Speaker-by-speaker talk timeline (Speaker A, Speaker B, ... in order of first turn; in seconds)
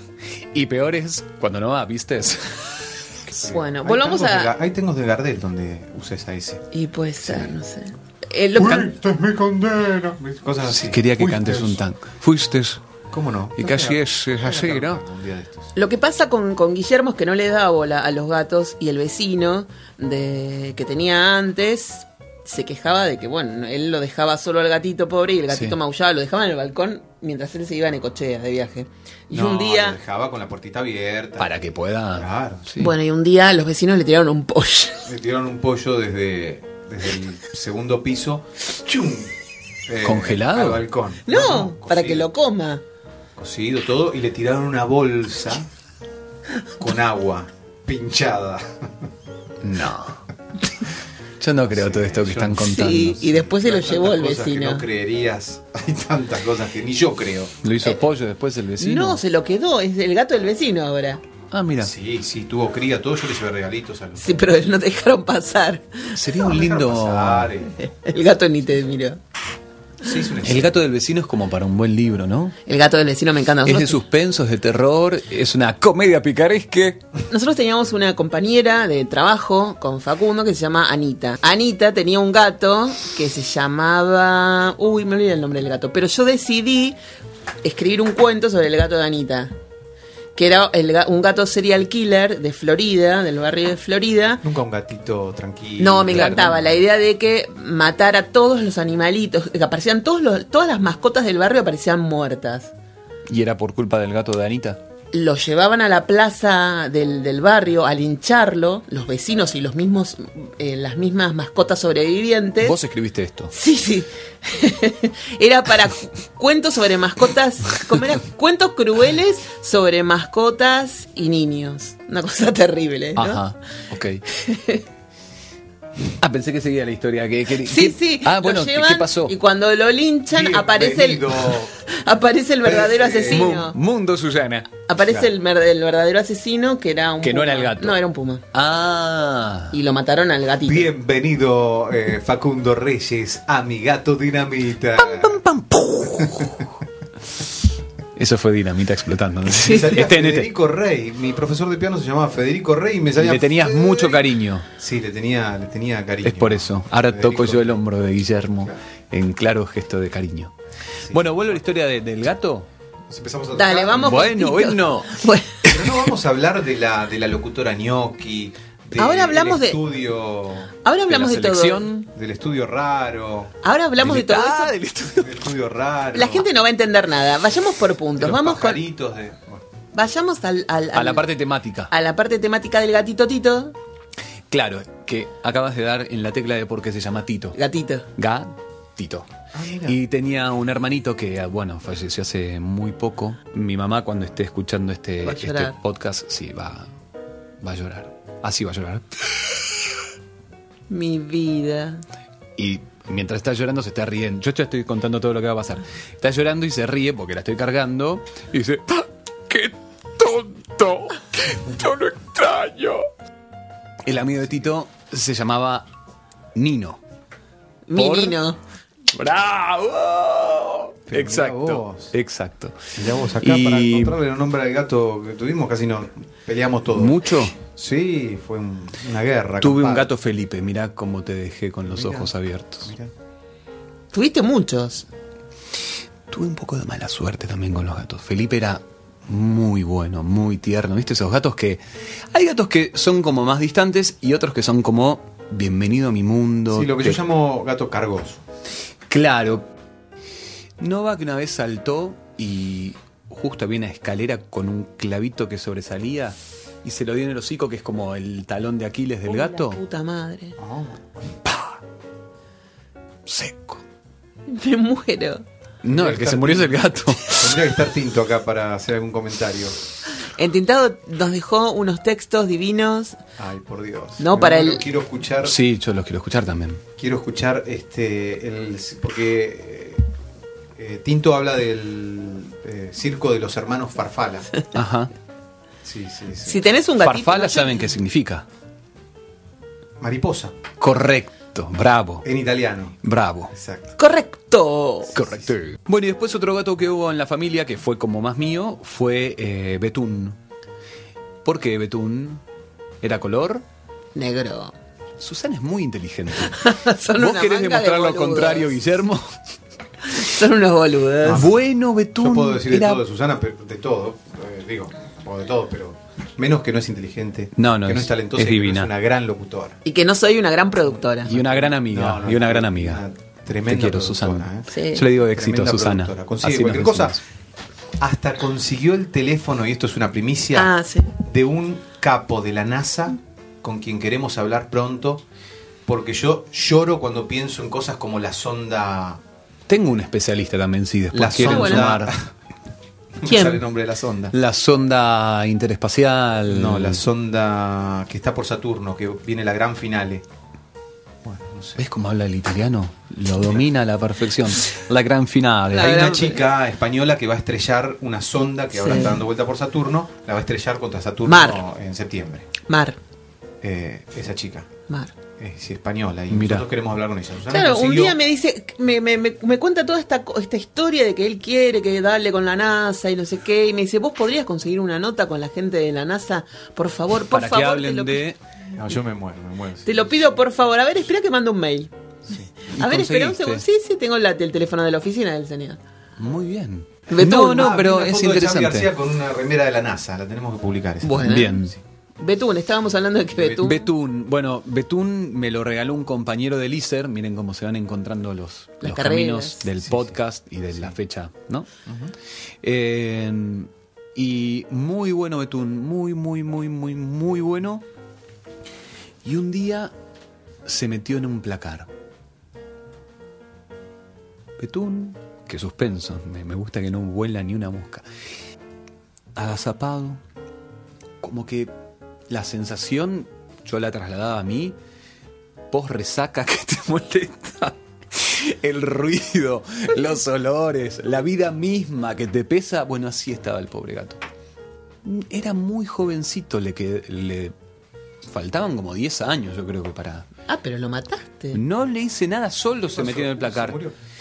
Speaker A: 0.5-3.4, 10.7-12.8, 13.6-15.0, 31.4-32.9, 40.0-40.9, 49.6-50.2, 51.4-53.3, 57.6-59.2, 61.5-61.9, 66.2-67.5, 70.5-72.6, 73.7-77.0, 96.1-96.5, 103.3-104.8, 112.6-113.5, 123.2-124.2, 126.2-129.4, 133.3-134.8, 137.2-138.0, 138.5-139.8, 145.0-146.7, 148.2-150.5, 153.2-154.7, 156.2-160.5, 161.1-162.7, 164.0-165.8, 171.1-172.0, 174.0-175.3, 180.9-181.9, 184.5-187.6, 188.2-189.3, 189.9-196.9, 197.6-199.7, 202.6-213.1, 214.1-215.9, 216.6-217.0, 217.9-218.4, 219.1-224.2, 226.9-227.6, 229.6-232.9, 236.3-247.2, 249.1-249.7, 250.8-259.8, 261.4-261.8, 263.3-263.8, 265.8-267.6, 275.4-276.8, 284.7-285.1, 287.0-288.5, 290.8-292.3, 293.0-293.5, 295.1-300.4, 301.4-302.4, 303.0-303.6, 305.2-309.4, 311.4-313.0, 317.6-318.9, 321.3-323.0, 323.7-327.2, 339.7-342.1, 344.3-347.0, 351.8-356.1, 366.3-366.7, 377.3-378.4, 382.7-383.6, 386.2-388.9, 391.2-391.7, 393.6-401.7, 402.6-407.8, 409.2-409.9, 410.6-411.9, 414.6-418.1, 419.4-420.2, 421.2-421.7, 422.3-424.8, 425.7-434.2, 435.0-437.5, 438.3-440.3, 441.5-443.8
Speaker B: 3.4-6.6, 7.2-7.5, 8.6-11.8, 13.1-15.7, 29.3-32.7, 35.1-39.3, 39.9-42.3, 43.4-45.7, 46.8-49.1, 51.6-57.5, 61.8-64.4, 66.4-67.7, 70.0-70.8, 94.4-96.6, 130.3-131.7, 132.6-133.6, 140.6-145.4, 146.2-146.6, 149.5-157.8, 161.0-161.6, 163.1-164.3, 165.7-170.7, 172.1-173.5, 175.2-176.5, 178.2-179.6, 189.5-190.0, 221.1-222.1, 223.0-230.1, 231.8-232.3, 232.8-233.1, 246.7-248.4, 260.6-261.2, 265.9-269.8, 273.4-275.6, 277.0-280.0, 280.8-284.5, 285.8-286.6, 290.0-290.6, 292.2-293.0, 293.5-293.9, 311.2-311.6, 312.1-319.8, 321.3-327.2, 328.0-335.2, 335.9-339.2, 341.1-342.3, 343.2-344.4, 346.5-350.2, 351.2-351.8, 355.7-362.5, 363.6-364.7, 365.4-368.2, 378.7-380.4, 387.4-391.8, 393.3-393.7, 399.8-400.2, 401.9-402.1, 442.9-443.9
Speaker C: 3.4-4.5, 6.7-8.9, 15.8-30.0, 32.8-35.1, 41.3-42.8, 52.7-54.9, 58.8-61.2, 64.2-66.2, 67.8-69.2, 72.7-74.0, 77.3-87.0, 87.6-89.5, 90.4-94.4, 95.8-102.7, 105.1-112.8, 113.5-123.4, 124.3-124.8, 127.7-133.8, 134.9-138.4, 139.7-140.9, 163.6-165.6, 169.0-169.8, 170.8-172.1, 173.6-174.7, 176.1-178.8, 179.9-181.3, 181.9-183.8, 187.6-188.1, 195.2-195.8, 200.9-202.0, 217.9-218.6, 234.1-235.1, 259.3-260.6, 264.5-265.4, 270.2-273.2, 274.2-274.9, 286.5-287.9, 294.0-295.1, 304.1-304.8, 306.4-308.7, 310.1-311.5, 319.9-321.3, 324.7-325.0, 330.6-331.1, 341.4-341.9, 343.2-343.6, 355.7-356.4, 358.8-359.2, 361.3-361.6, 362.7-363.0, 367.5-378.2, 379.9-381.9, 382.8-385.8, 387.1-387.8, 391.0-391.6, 392.2-393.8, 398.8-399.6, 440.5-441.6